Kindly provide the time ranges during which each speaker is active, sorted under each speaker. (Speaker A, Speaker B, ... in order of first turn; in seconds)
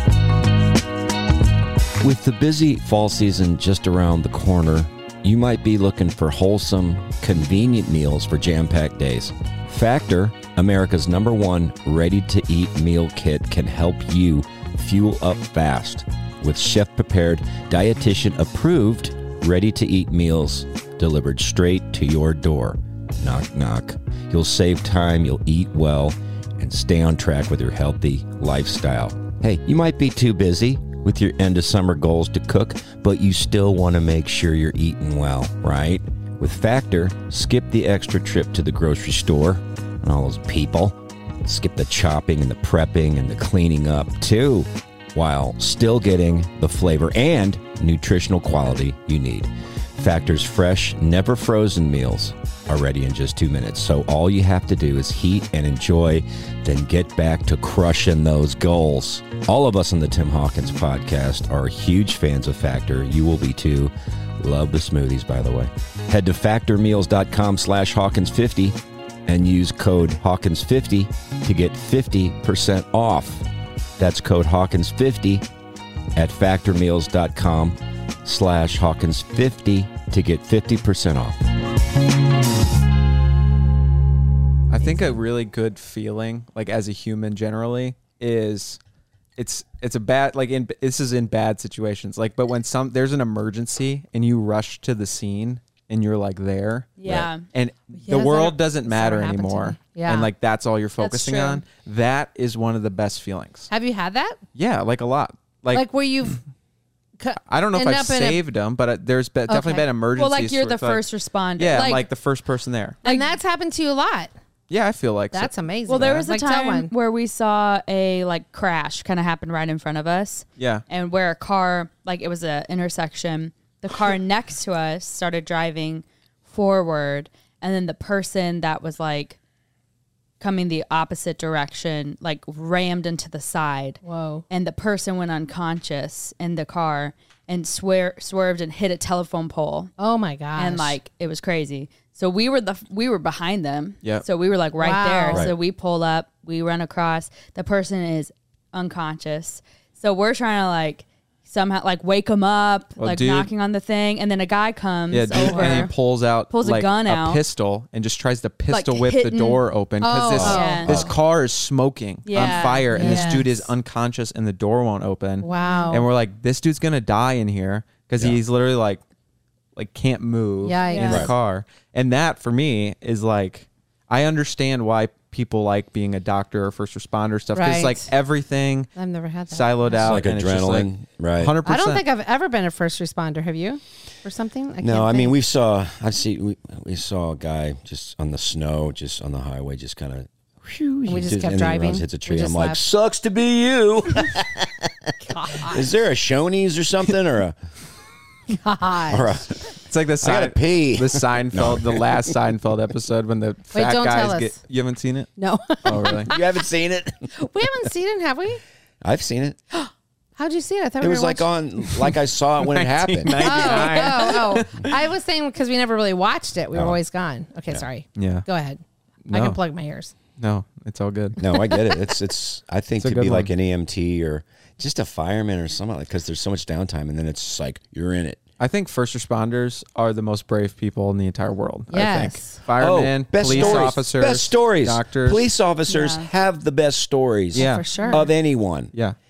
Speaker A: 2.0-73.5, 74.0-75.5, 76.2-81.5, 160.3-161.1, 171.1-171.3, 180.0-181.6, 184.8-197.6, 199.1-199.7, 200.2-202.3, 206.3-207.3, 209.0-209.6, 211.0-214.2, 216.7-217.0, 221.4-228.4, 232.8-238.9
Speaker B: 84.7-88.8, 89.4-103.7, 104.6-105.9, 107.5-111.0, 111.6-113.0, 114.7-116.2, 120.6-120.8, 153.0-153.5, 155.1-169.0, 169.8-178.9, 179.5-182.1, 199.9-205.3, 205.8-206.3, 212.6-214.9, 218.2-218.5, 219.3-219.6, 220.4-221.4, 223.0-223.5, 228.6-235.4, 237.5-237.9
Speaker C: 97.0-97.5, 101.0-101.6, 110.2-112.0, 113.0-113.3, 115.9-129.4, 130.4-139.9, 140.6-155.9, 156.5-157.4, 158.7-159.6, 160.4-160.9, 162.3-163.4, 165.6-166.0, 170.9-171.2, 235.9-236.3
Speaker D: 98.0-100.3, 103.7-104.4, 105.7-106.4, 107.2-108.4, 109.5-109.9, 113.0-114.3, 115.3-116.9, 134.0-134.4, 140.0-141.0, 144.8-145.5, 155.3-155.9, 160.0-161.1, 162.3-163.7, 165.4-166.1, 170.6-171.3, 177.5-178.1, 179.0-180.2, 181.6-185.4, 191.1-192.8, 195.2-195.9, 198.5-199.4, 203.7-204.5, 205.4-206.5, 207.4-208.6, 210.4-211.5, 213.4-220.1, 231.9-232.6, 233.5-233.9, 237.5-238.3